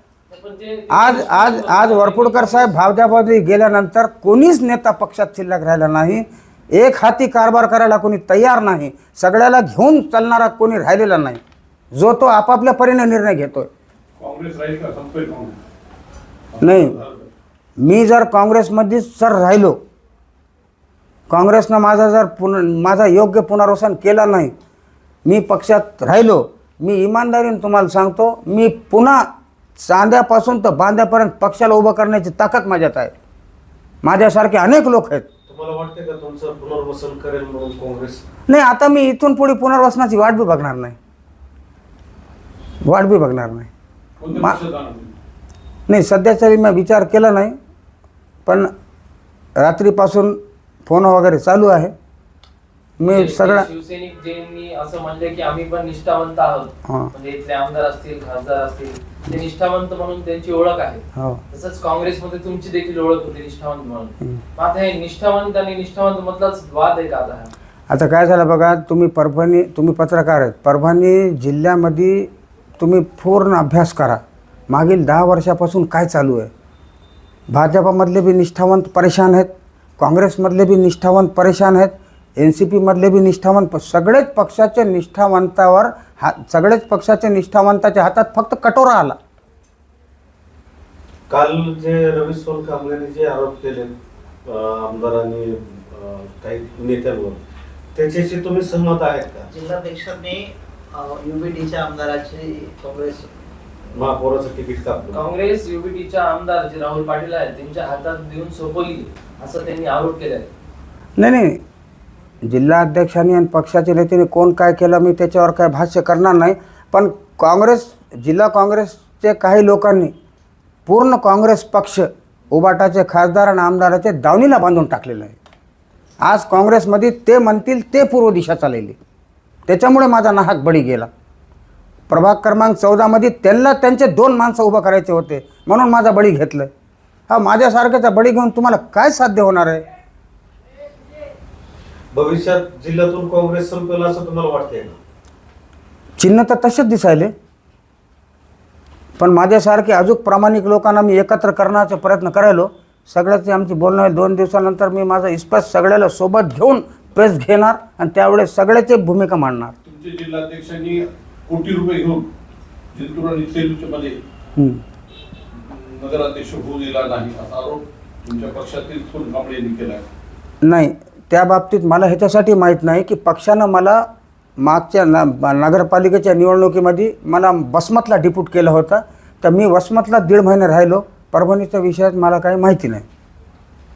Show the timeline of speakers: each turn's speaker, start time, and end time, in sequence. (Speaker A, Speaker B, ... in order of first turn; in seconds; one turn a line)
Speaker A: 0.3-2.9
Speaker B: 0.9-11.4
Speaker B: 11.9-13.7
Speaker C: 14.2-15.6
Speaker C: 16.5-17.3
Speaker B: 16.6-17.0
Speaker B: 17.8-19.8
Speaker B: 21.3-24.5
Speaker B: 25.2-33.1
Speaker B: 34.0-35.3
Speaker D: 35.5-38.2
Speaker B: 38.5-41.0
Speaker B: 42.8-43.7
Speaker C: 44.2-45.1
Speaker B: 45.9-47.6
Speaker B: 49.6-51.9
Speaker B: 53.0-53.7
Speaker A: 53.0-67.5
Speaker B: 56.9-57.1
Speaker B: 61.2-61.4
Speaker B: 67.9-76.5
Speaker B: 77.5-89.2
Speaker D: 91.3-93.9
Speaker D: 94.5-97.4
Speaker D: 98.0-99.5
Speaker E: 99.5-103.3
Speaker D: 103.9-105.2
Speaker A: 105.1-110.5
Speaker B: 111.2-111.6
Speaker B: 112.4-120.1
Speaker B: 120.9-125.4
Speaker B: 126.2-129.0
Speaker B: 129.7-131.1
Speaker B: 132.1-136.7
Speaker B: 137.3-139.8
Speaker D: 142.1-145.0
Speaker B: 146.2-147.3
Speaker B: 149.2-159.8
Speaker C: 159.8-162.3
Speaker C: 162.9-164.2
Speaker B: 164.6-164.8
Speaker C: 165.5-170.1
Speaker B: 170.6-174.0
Speaker B: 174.6-183.1